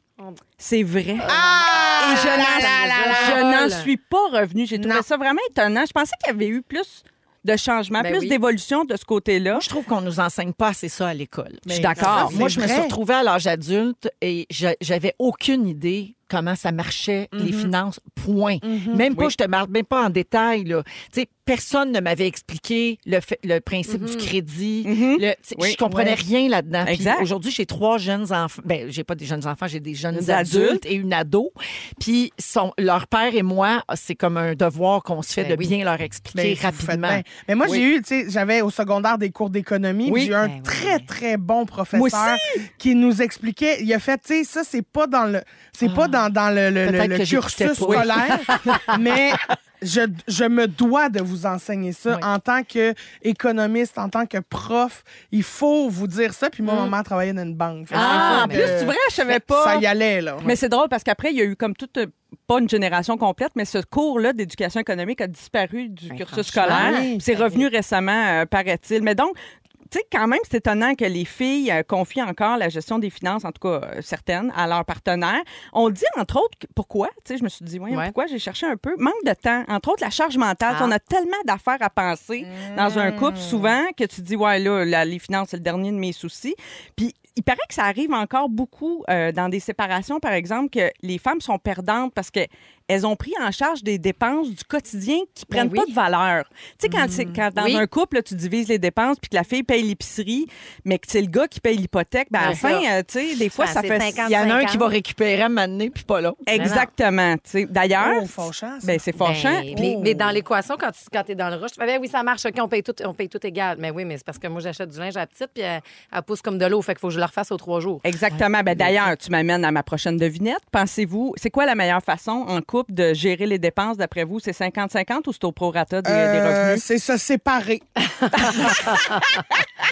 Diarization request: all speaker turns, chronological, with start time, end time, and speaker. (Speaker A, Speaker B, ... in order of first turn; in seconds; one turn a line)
Speaker A: 0.6-1.3
Speaker B: 1.2-3.9
Speaker C: 1.3-3.4
Speaker A: 2.0-9.7
Speaker C: 4.8-5.0
Speaker B: 8.0-8.4
Speaker D: 9.5-37.2
Speaker C: 11.7-12.9
Speaker A: 11.7-12.4
Speaker C: 17.4-17.7
Speaker C: 18.6-19.1
Speaker B: 23.9-24.3
Speaker A: 24.8-25.8
Speaker A: 26.9-27.3
Speaker A: 30.1-30.8
Speaker B: 35.3-35.7
Speaker C: 36.3-60.4
Speaker A: 40.1-40.3
Speaker B: 40.4-41.1
Speaker A: 41.9-42.7
Speaker D: 45.9-46.1
Speaker D: 46.8-48.5
Speaker A: 47.8-48.1
Speaker B: 57.9-58.7
Speaker A: 57.9-59.9
Speaker A: 60.4-69.3
Speaker B: 66.1-67.7
Speaker C: 66.6-67.2
Speaker A: 69.9-104.2
Speaker B: 80.7-81.0
Speaker C: 82.5-83.7
Speaker B: 95.5-95.9
Speaker C: 96.9-97.4
Speaker B: 97.5-97.8
Speaker B: 102.4-102.8
Speaker B: 103.6-104.9
Speaker D: 104.2-106.7
Speaker A: 106.5-109.9
Speaker B: 106.6-106.9
Speaker C: 108.0-109.0
Speaker B: 109.2-118.0
Speaker C: 109.7-110.3
Speaker A: 118.0-126.8
Speaker D: 118.3-118.9
Speaker C: 126.1-129.0
Speaker B: 128.4-129.2